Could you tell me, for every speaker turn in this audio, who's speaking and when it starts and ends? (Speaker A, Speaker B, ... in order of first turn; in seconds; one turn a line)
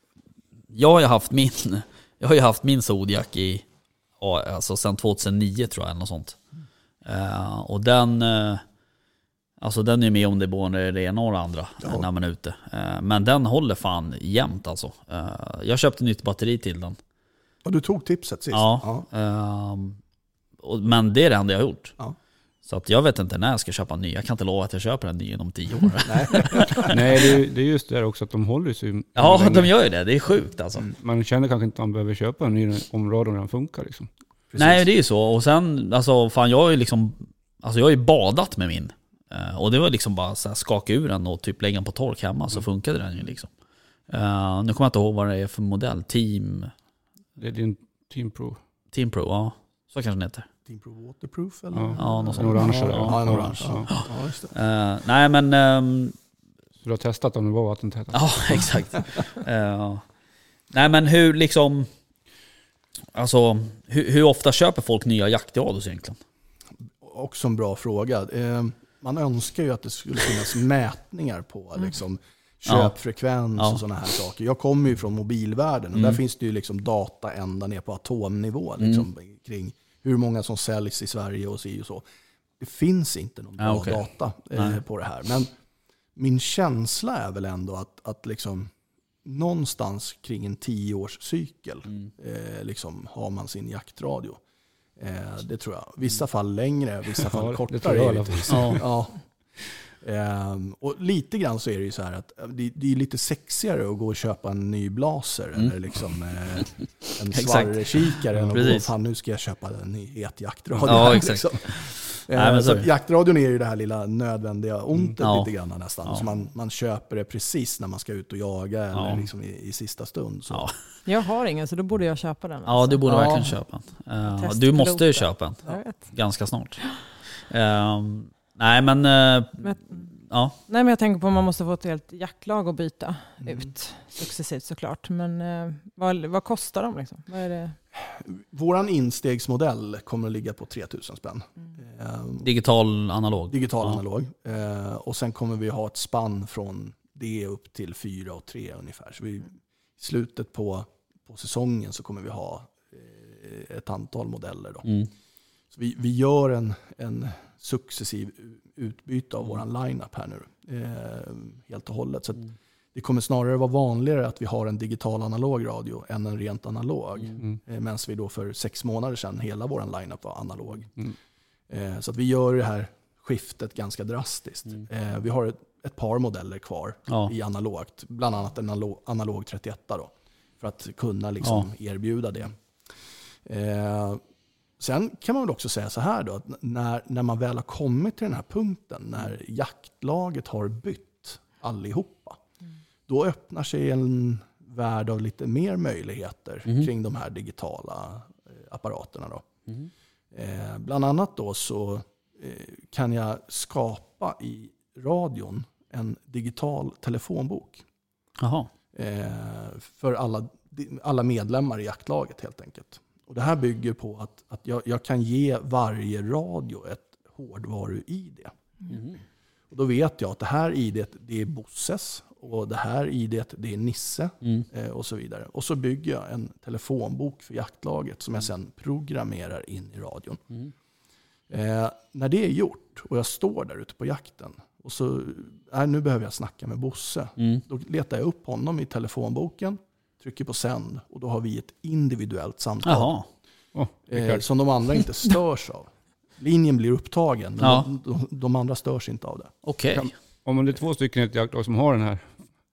Speaker A: 0.7-3.6
Speaker A: 4.2-6.4
Speaker A: 7.0-8.6
Speaker A: 9.6-17.0
Speaker B: 11.8-12.1
Speaker B: 17.6-19.1
Speaker A: 18.5-20.0
Speaker A: 20.6-21.9
Speaker A: 22.6-26.9
Speaker B: 26.0-26.8
Speaker C: 26.8-29.7
Speaker A: 29.1-30.9
Speaker C: 31.0-34.1
Speaker B: 34.5-34.8
Speaker A: 34.5-43.5
Speaker A: 44.1-46.7
Speaker C: 47.4-48.6
Speaker A: 48.9-50.5
Speaker B: 50.6-54.5
Speaker C: 51.7-53.9
Speaker A: 52.0-53.1
Speaker A: 53.9-56.1
Speaker C: 56.8-58.7
Speaker A: 58.1-60.0
Speaker A: 60.7-61.9
Speaker A: 63.1-66.2
Speaker B: 67.0-82.0
Speaker A: 72.7-72.9
Speaker B: 82.6-85.5
Speaker A: 83.6-84.0
Speaker B: 86.2-88.7
Speaker B: 89.2-94.4
Speaker B: 95.0-120.7
Speaker C: 97.2-98.8
Speaker A: 98.5-98.8
Speaker A: 107.3-108.9
Speaker A: 110.8-112.9
Speaker A: 115.2-115.5
Speaker A: 118.9-119.2
Speaker D: 121.0-123.0
Speaker A: 122.7-126.8
Speaker B: 123.0-123.5
Speaker D: 124.3-126.1
Speaker A: 127.5-129.7
Speaker D: 129.6-130.0
Speaker A: 130.3-130.6
Speaker D: 130.7-137.8
Speaker B: 133.4-133.7
Speaker B: 137.9-142.5
Speaker A: 142.4-144.0
Speaker B: 143.5-154.9
Speaker B: 155.7-170.9
Speaker B: 171.7-182.6
Speaker A: 177.1-177.3
Speaker B: 183.4-184.2
Speaker B: 184.8-192.4
Speaker B: 193.1-199.4
Speaker B: 200.3-207.8
Speaker A: 208.4-208.7
Speaker B: 208.9-218.5
Speaker A: 218.9-219.2
Speaker B: 219.7-230.4
Speaker B: 231.5-243.1
Speaker A: 237.4-237.6
Speaker A: 242.8-243.2
Speaker C: 243.7-244.4
Speaker B: 244.1-249.5
Speaker A: 247.6-247.9
Speaker A: 249.6-250.1
Speaker C: 249.9-252.4